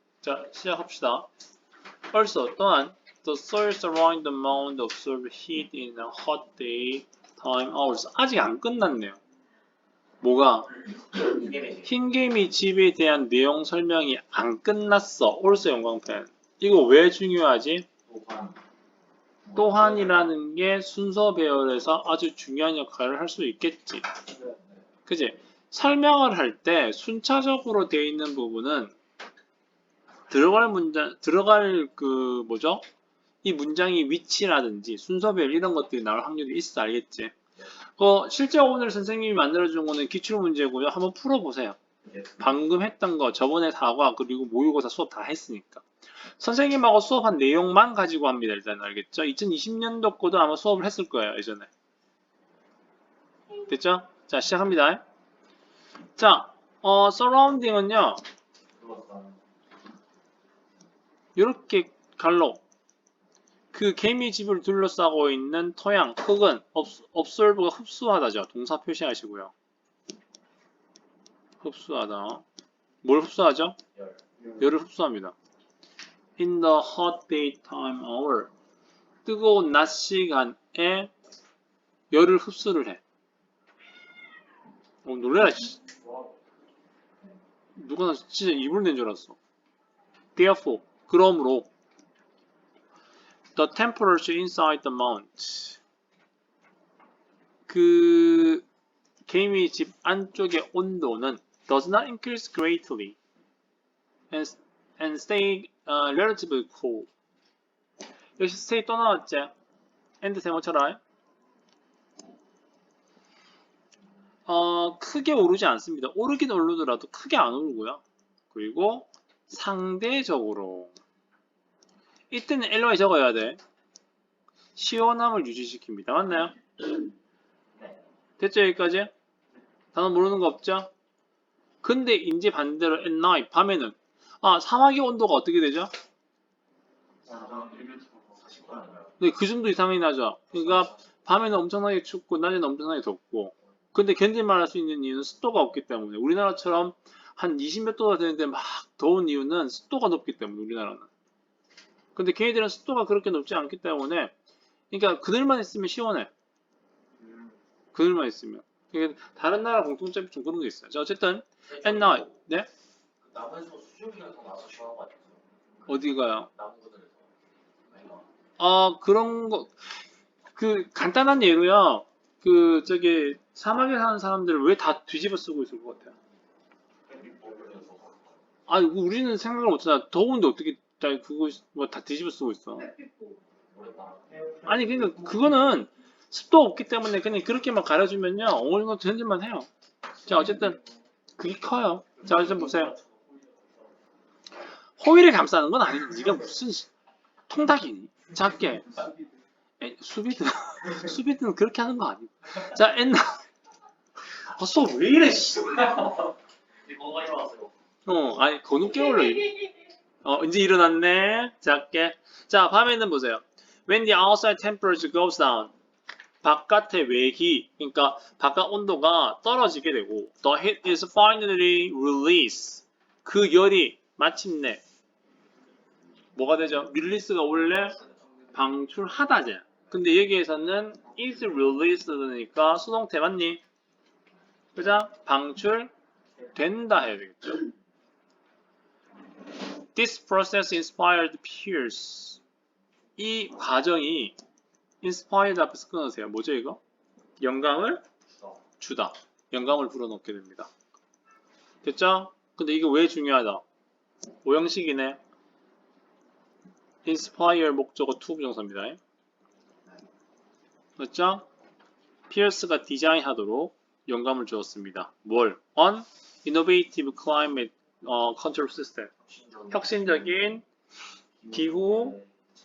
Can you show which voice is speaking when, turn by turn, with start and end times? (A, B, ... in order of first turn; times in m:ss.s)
0:00.2-0:01.3 A
0:02.1-0:09.2 A
0:10.2-0:10.8 A
0:11.2-0:11.8 B
0:11.8-0:17.9 A
0:18.1-0:18.6 B
0:19.5-0:24.0 A
0:25.1-0:28.9 A
0:30.3-0:32.8 A
0:33.4-0:37.3 A
0:38.0-0:41.8 A
0:42.4-0:45.8 A
0:46.4-0:51.7 A
0:53.6-0:55.0 A
0:56.2-0:58.2 A
0:58.8-0:59.4 B
1:01.4-1:02.6 A
1:03.7-1:09.5 A
1:11.6-1:12.4 A
1:13.0-1:13.8 A
1:14.6-1:15.3 A
1:16.4-1:18.5 A
1:19.2-1:21.1 A
1:22.1-1:23.0 A
1:25.0-1:25.8 A
1:27.8-1:29.4 A
1:30.4-1:31.7 A
1:33.6-1:35.8 A
1:37.7-1:38.7 A
1:39.3-1:43.2 A
1:44.3-1:47.1 A
1:48.4-1:49.5 A
1:50.2-1:51.0 A
1:54.5-2:00.9 A
2:02.3-2:03.6 A
2:04.8-2:06.6 A
2:08.4-2:09.1 A
2:09.9-2:10.9 A
2:11.8-2:15.9 A
2:17.2-2:19.1 B
2:19.2-2:31.1 A
2:32.2-2:34.3 A
2:34.9-2:36.3 A
2:37.9-2:42.7 A
2:41.8-2:42.2 B
2:43.2-2:45.4 B
2:45.9-2:46.5 A
2:46.5-2:47.3 B
2:47.9-2:48.2 B
2:48.6-2:49.9 A
2:50.6-2:56.2 A
2:57.1-2:58.2 B
2:58.7-3:03.1 A
3:03.7-3:04.3 B
3:04.6-3:09.7 A
3:10.2-3:10.8 A
3:11.4-3:13.0 A
3:15.0-3:16.9 A
3:17.5-3:19.0 A
3:19.8-3:23.4 A
3:24.3-3:26.3 A
3:26.9-3:27.7 B
3:28.1-3:35.7 A
3:36.4-3:44.8 A
3:46.4-3:48.0 A
3:48.5-3:53.6 A
3:54.8-3:55.9 A
3:56.5-3:57.7 A
3:59.9-4:02.4 A
4:03.2-4:04.4 A
4:05.0-4:06.8 A
4:07.4-4:08.0 A
4:08.8-4:10.7 A
4:11.8-4:13.6 A
4:14.4-4:15.2 A
4:17.0-4:19.0 A
4:21.0-4:21.4 A
4:22.3-4:29.1 A
4:29.3-4:30.1 B
4:29.7-4:30.6 A
4:31.4-4:32.3 B
4:31.5-4:32.2 A